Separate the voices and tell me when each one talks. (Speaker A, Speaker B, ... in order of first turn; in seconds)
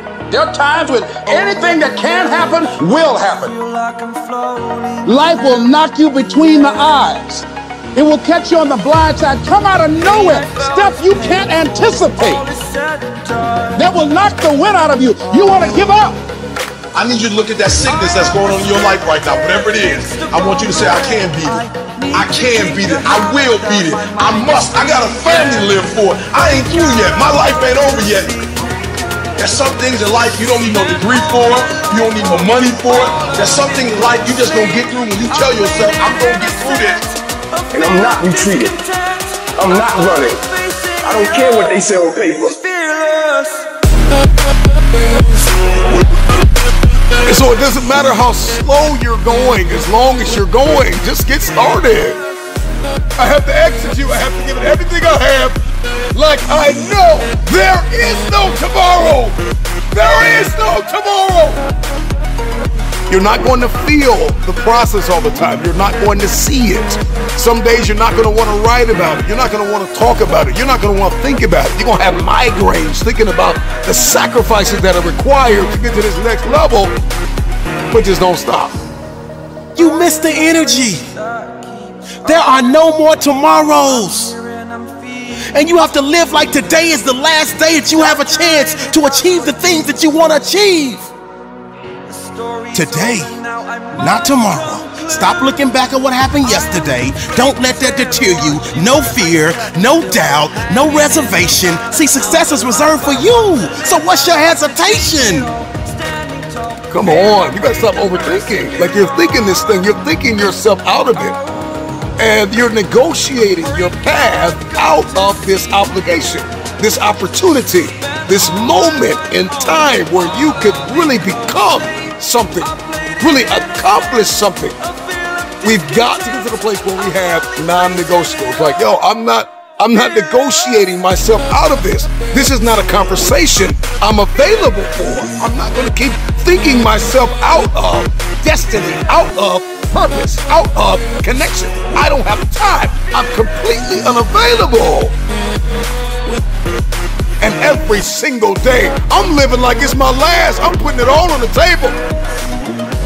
Speaker A: 0.3-3.6, 5.0-12.7, 13.5-16.2
Speaker B: 16.9-28.4, 29.4-37.1, 39.6-39.9
Speaker C: 37.7-38.8, 39.6-40.4, 41.0-42.7
Speaker D: 47.3-52.2, 53.2-55.6, 56.1-59.4, 59.9-61.6, 63.1-77.0, 77.9-78.8, 106.9-111.4, 112.2-124.8, 125.6-145.1, 147.4-152.0
Speaker E: 79.8-81.1, 82.2-84.4, 85.5-91.1, 92.7-93.3, 93.9-105.5